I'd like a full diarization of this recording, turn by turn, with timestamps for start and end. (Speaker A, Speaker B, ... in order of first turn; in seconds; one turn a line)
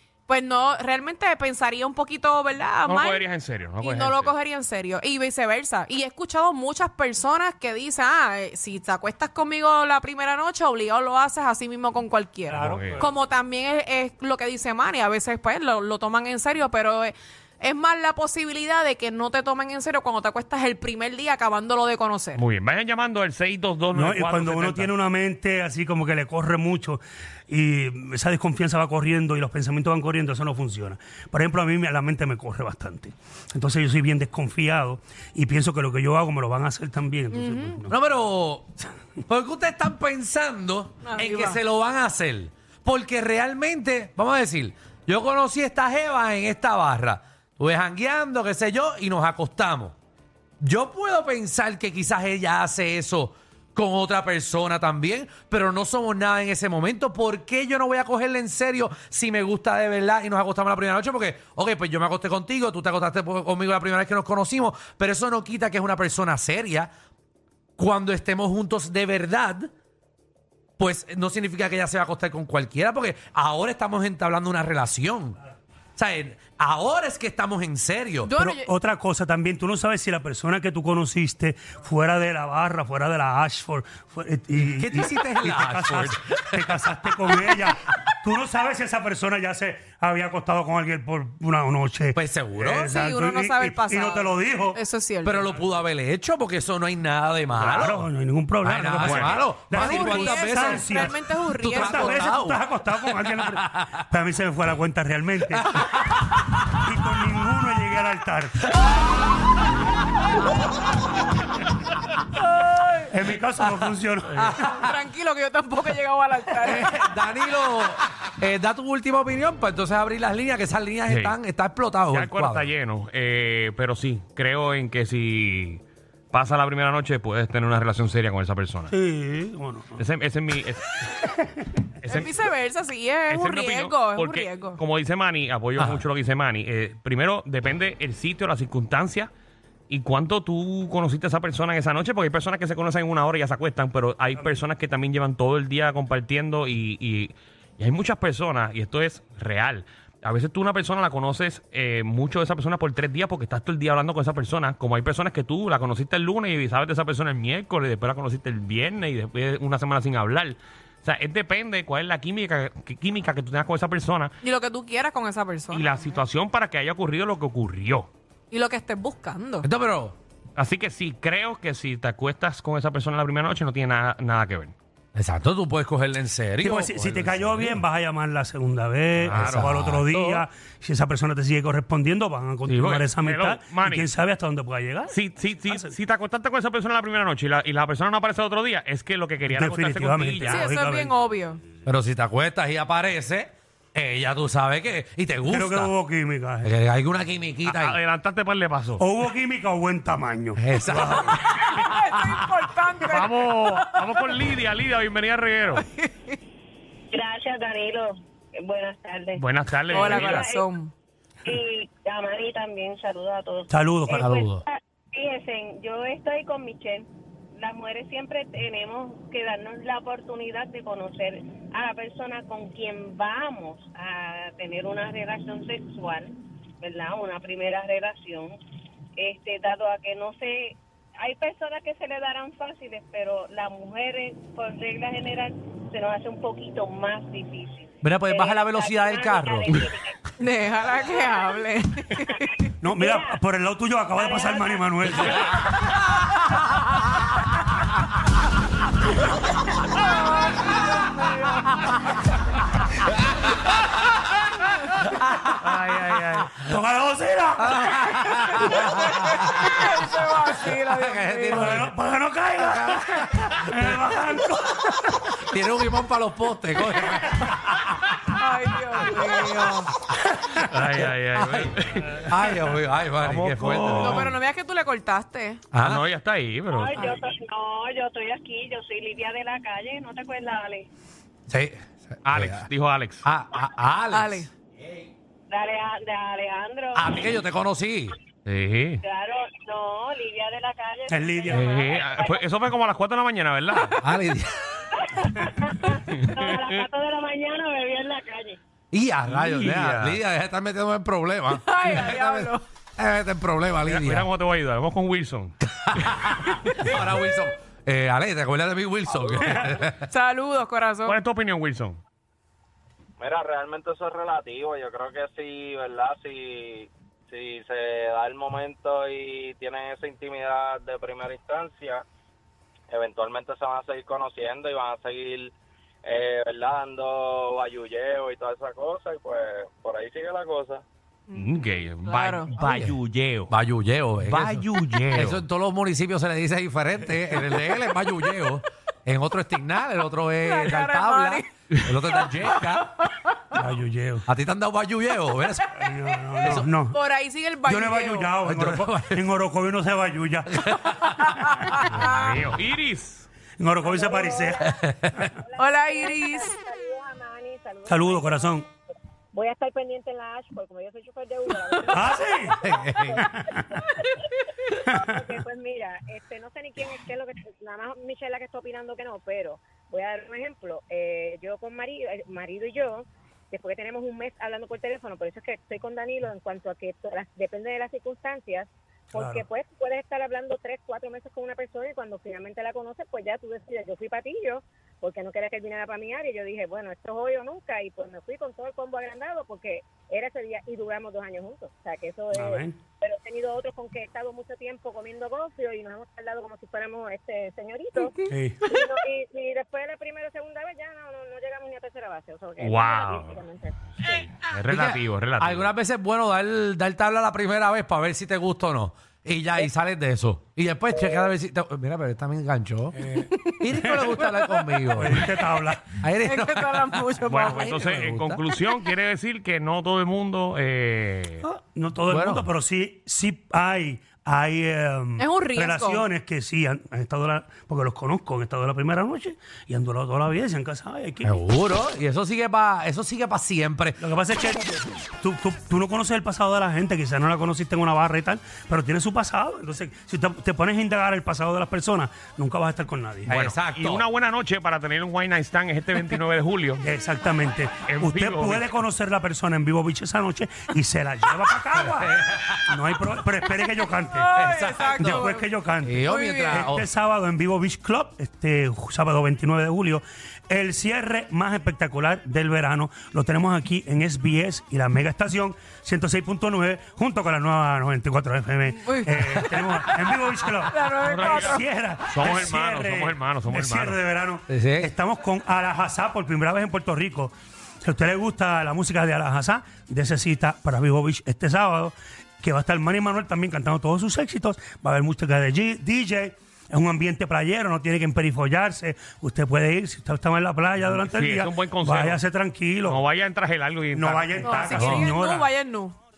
Speaker A: 0.3-3.3
Speaker B: 2.9-4.3
Speaker A: 3.8-22.4
Speaker C: 12.5-13.1
Speaker B: 12.6-13.0
Speaker B: 22.4-24.9
Speaker C: 23.9-38.0
Speaker A: 37.3-37.8
Speaker D: 37.9-38.7
Speaker D: 39.3-50.0
Speaker A: 41.0-41.6
Speaker D: 50.6-66.9
Speaker D: 67.8-69.7
Speaker D: 70.8-75.4
Speaker D: 76.0-78.3
Speaker A: 78.2-78.7
Speaker C: 78.4-94.8
Speaker D: 84.6-86.8
Speaker D: 92.1-92.9
Speaker A: 92.9-95.5
Speaker D: 95.2-98.0
Speaker C: 97.5-105.7
Speaker D: 98.6-100.8
Speaker B: 99.0-99.5
Speaker A: 99.8-102.3
Speaker D: 101.6-104.0
Speaker A: 105.7-106.1
Speaker D: 105.8-106.6
Speaker C: 106.7-108.7
Speaker A: 112.4-113.1
Speaker C: 113.1-114.6
Speaker D: 114.4-114.9
Speaker A: 114.6-117.4
Speaker D: 116.7-122.7
Speaker B: 121.1-121.4
Speaker B: 122.0-128.9
Speaker C: 128.9-130.0
Speaker B: 130.0-131.2
Speaker B: 132.0-132.3
Speaker A: 132.1-134.8
Speaker B: 133.3-139.3
Speaker B: 139.9-164.3
Speaker A: 164.4-165.9
Speaker B: 165.7-168.1
Speaker A: 168.5-169.7
Speaker D: 169.6-170.2
Speaker B: 170.6-174.8
Speaker D: 175.1-177.8
Speaker C: 176.6-185.9
Speaker D: 179.2-180.4
Speaker B: 179.3-179.8
Speaker B: 182.7-184.1
Speaker B: 185.1-190.7
Speaker C: 189.5-191.2
Speaker A: 190.4-191.6
Speaker D: 191.9-195.9
Speaker C: 195.5-196.7
Speaker D: 196.6-198.0
Speaker B: 197.6-199.0
Speaker C: 199.0-201.4
Speaker D: 200.6-201.4
Speaker A: 201.1-204.4
Speaker B: 203.1-205.9
Speaker A: 205.9-206.4
Speaker E: 207.1-210.7
Speaker B: 209.4-210.5
Speaker A: 209.9-210.9
Speaker E: 211.4-228.5
Speaker C: 213.7-214.2
Speaker D: 214.1-214.6
Speaker E: 229.2-240.2
Speaker D: 238.0-239.9
Speaker A: 240.4-242.7
Speaker C: 242.8-245.4
Speaker E: 243.0-243.4
Speaker E: 244.1-245.6
Speaker A: 246.4-246.8
Speaker A: 249.9-251.9
Speaker D: 255.3-255.5
Speaker B: 255.5-256.5
Speaker C: 256.6-258.0
Speaker D: 257.6-259.5
Speaker A: 258.1-261.9
Speaker D: 261.0-261.9
Speaker C: 261.5-265.2
Speaker D: 262.7-264.0
Speaker D: 265.3-267.9
Speaker A: 268.2-269.9
Speaker B: 270.7-272.6
Speaker D: 271.4-271.7
Speaker D: 272.2-274.3
Speaker B: 273.2-274.3
Speaker A: 273.9-275.6
Speaker D: 275.7-276.0
Speaker B: 275.8-277.0
Speaker E: 276.7-280.9
Speaker A: 276.9-277.2
Speaker D: 281.5-282.7
Speaker B: 282.2-283.2
Speaker D: 283.2-284.5
Speaker A: 284.1-284.5
Speaker E: 285.5-287.5
Speaker D: 286.9-288.1
Speaker B: 288.4-289.0
Speaker E: 289.0-292.4
Speaker C: 291.1-291.8
Speaker B: 291.5-294.1
Speaker D: 294.0-294.8
Speaker E: 294.9-298.6
Speaker B: 296.2-296.6
Speaker D: 298.9-304.3
Speaker B: 299.2-300.2
Speaker A: 301.5-302.6
Speaker B: 303.9-306.3
Speaker D: 305.9-310.0
Speaker A: 306.4-306.9
Speaker F: 309.2-309.8
Speaker A: 309.9-311.2
Speaker B: 311.1-312.0
Speaker F: 313.2-322.0
Speaker F: 322.9-330.9
Speaker A: 331.3-332.5
Speaker B: 331.3-333.5
Speaker D: 333.5-342.8
Speaker B: 334.2-335.4
Speaker A: 340.4-341.5
Speaker A: 342.0-343.5
Speaker C: 343.5-344.3
Speaker D: 344.3-345.7
Speaker C: 345.8-347.0
Speaker A: 345.8-348.3
Speaker C: 347.6-351.8
Speaker D: 348.4-349.2
Speaker D: 350.5-351.1
Speaker A: 351.2-352.4
Speaker B: 351.9-353.3
Speaker C: 353.6-354.6
Speaker E: 353.8-358.6
Speaker D: 354.8-355.2
Speaker A: 355.6-356.5
Speaker C: 357.9-358.6
Speaker E: 359.3-404.2
Speaker A: 361.7-362.0
Speaker C: 361.9-362.6
Speaker D: 362.6-363.3
Speaker C: 363.3-363.6
Speaker A: 363.8-364.8
Speaker C: 379.1-379.4
Speaker C: 392.3-392.8
Speaker C: 398.3-398.6
Speaker B: 402.6-403.4
Speaker B: 404.1-405.7
Speaker D: 404.7-415.3
Speaker A: 413.1-415.6
Speaker C: 413.7-414.1
Speaker C: 414.9-415.9
Speaker D: 415.9-418.4
Speaker A: 416.1-417.8
Speaker B: 417.2-421.4
Speaker A: 418.6-418.9
Speaker C: 421.4-431.4
Speaker D: 422.1-422.5
Speaker A: 425.2-426.1
Speaker D: 431.2-434.0
Speaker C: 434.0-443.3
Speaker B: 443.3-446.8
Speaker D: 443.3-444.0
Speaker C: 446.8-454.3
Speaker B: 447.9-448.7
Speaker D: 451.8-452.8
Speaker A: 454.1-455.5
Speaker D: 454.4-455.2
Speaker C: 455.0-493.0
Speaker D: 455.8-456.9
Speaker A: 456.0-456.7
Speaker A: 468.7-471.6
Speaker B: 471.0-471.6
Speaker B: 472.1-474.0
Speaker D: 474.5-474.9
Speaker B: 490.9-492.2
Speaker B: 492.8-494.6
Speaker C: 493.9-495.5
Speaker A: 494.4-496.0
Speaker D: 494.8-495.1